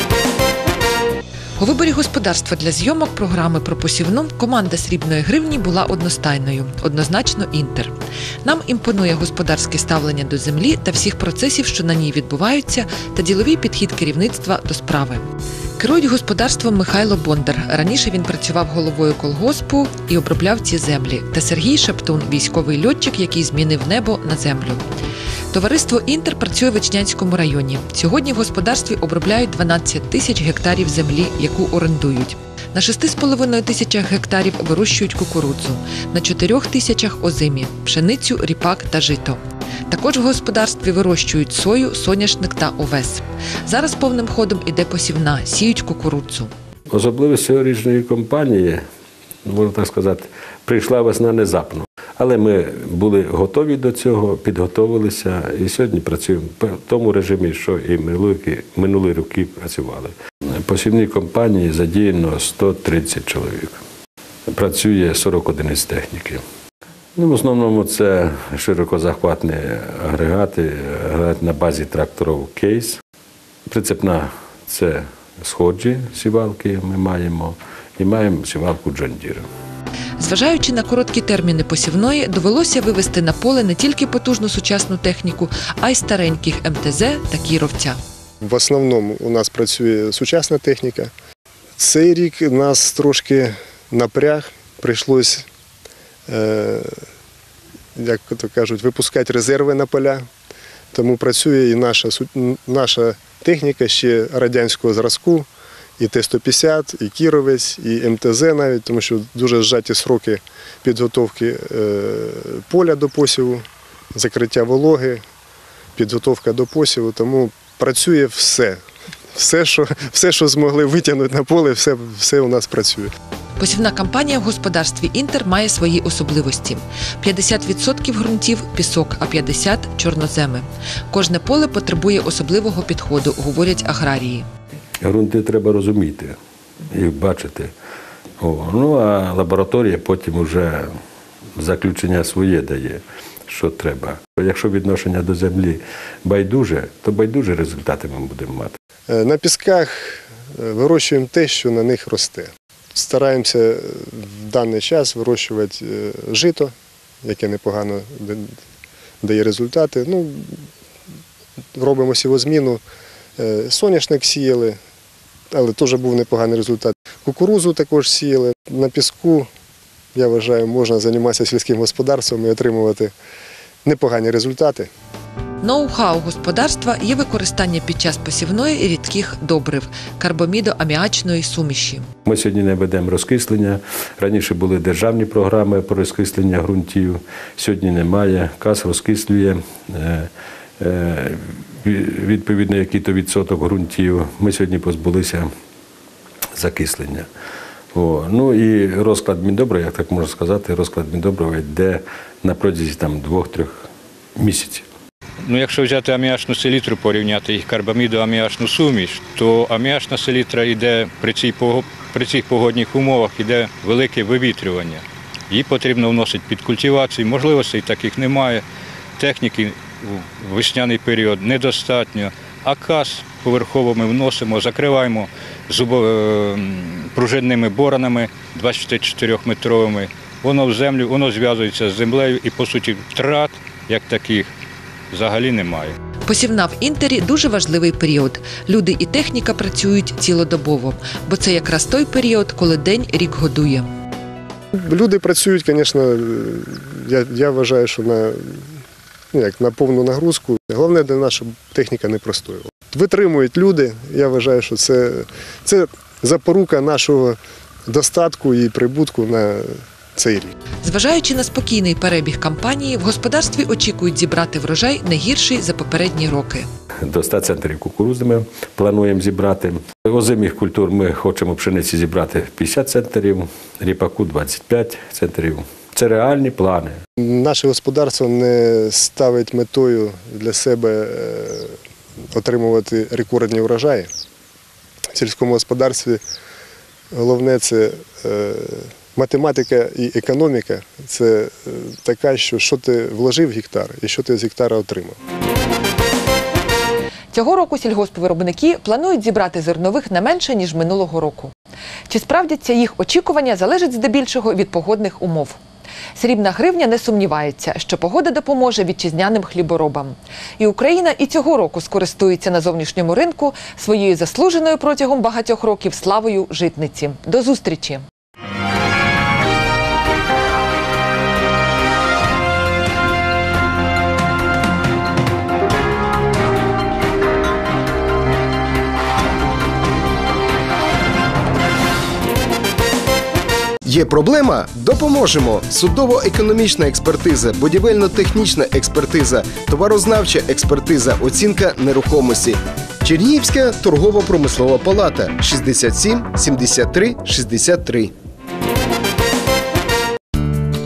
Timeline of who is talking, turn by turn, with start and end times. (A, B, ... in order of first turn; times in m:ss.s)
0:01.6-0:24.8 A
0:25.5-0:46.5 A
0:46.9-0:48.8 B
0:49.4-1:03.8 B
1:04.5-1:06.4 B
1:07.2-1:13.0 B
1:13.7-1:19.4 B
1:20.2-1:28.0 A
1:28.4-1:31.1 C
1:31.8-1:35.4 C
1:36.3-1:37.0 C
1:38.0-1:40.2 C
1:40.9-1:45.5 C
1:46.0-1:55.2 C
1:56.0-1:58.8 C
1:59.3-2:03.1 C
2:03.6-2:14.5 A
2:15.0-2:16.4 B
2:16.9-2:17.7 B
2:18.4-2:20.9 B
2:21.6-2:28.8 B
2:29.1-2:38.5 C
2:39.2-2:40.6 C
2:41.8-2:42.8 C
2:43.4-2:44.8 C
2:45.5-2:49.5 C
2:50.1-2:53.1 C
2:53.8-2:54.9 C
2:55.6-3:02.1 A
3:02.2-3:10.3 B
3:10.8-3:15.5 B
3:16.6-3:17.3 B
3:17.9-3:24.8 B
3:25.4-3:38.6 D
3:39.2-3:54.5 D
3:55.1-3:56.0 D
3:56.2-4:03.9 A
4:04.8-4:08.6 C
4:09.3-4:20.5 C
4:20.8-4:26.6 A
4:27.0-4:37.0 B
4:37.2-4:41.8 C
4:42.3-4:44.1 C
4:45.1-4:46.2 C
4:47.1-4:55.2 C
4:57.3-5:01.5 A
5:02.1-5:05.6 A
5:06.2-5:18.0 A
5:33.8-5:48.1 E